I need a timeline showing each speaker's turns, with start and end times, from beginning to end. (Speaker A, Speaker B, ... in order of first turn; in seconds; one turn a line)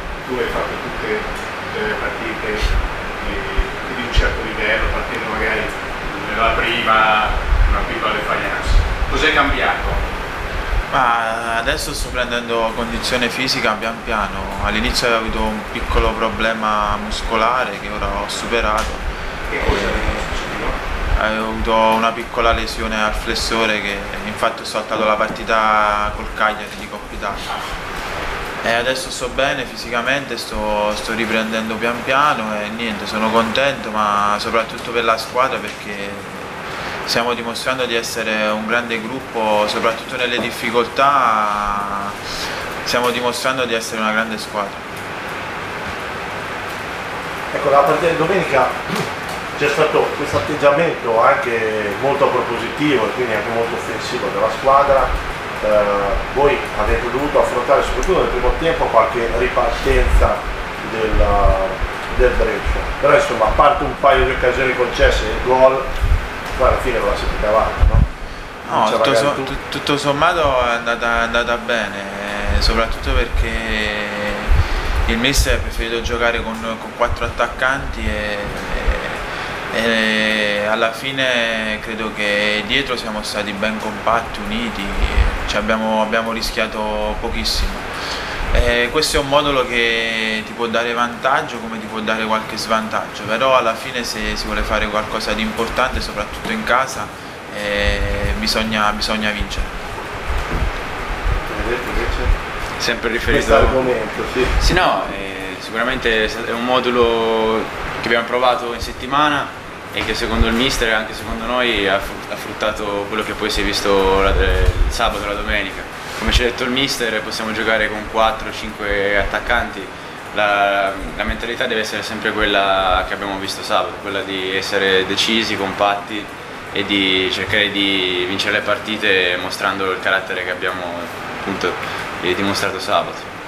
Speaker A: 0.3-1.1
Speaker B: 0.3-2.6
Speaker A: 1.9-2.6
Speaker B: 3.2-10.0
Speaker A: 4.4-4.7
Speaker A: 9.1-9.4
Speaker C: 10.9-19.0
Speaker C: 19.6-20.1
Speaker C: 21.1-27.5
Speaker C: 28.6-42.2
Speaker C: 42.8-44.8
Speaker A: 47.5-65.9
Speaker A: 66.5-68.0
Speaker A: 68.6-69.5
Speaker C: 68.6-74.5
Speaker C: 75.1-87.9
Speaker C: 88.5-99.7
Speaker A: 101.5-102.3
Speaker D: 102.8-103.9
Speaker A: 103.3-104.5
Speaker D: 104.5-133.3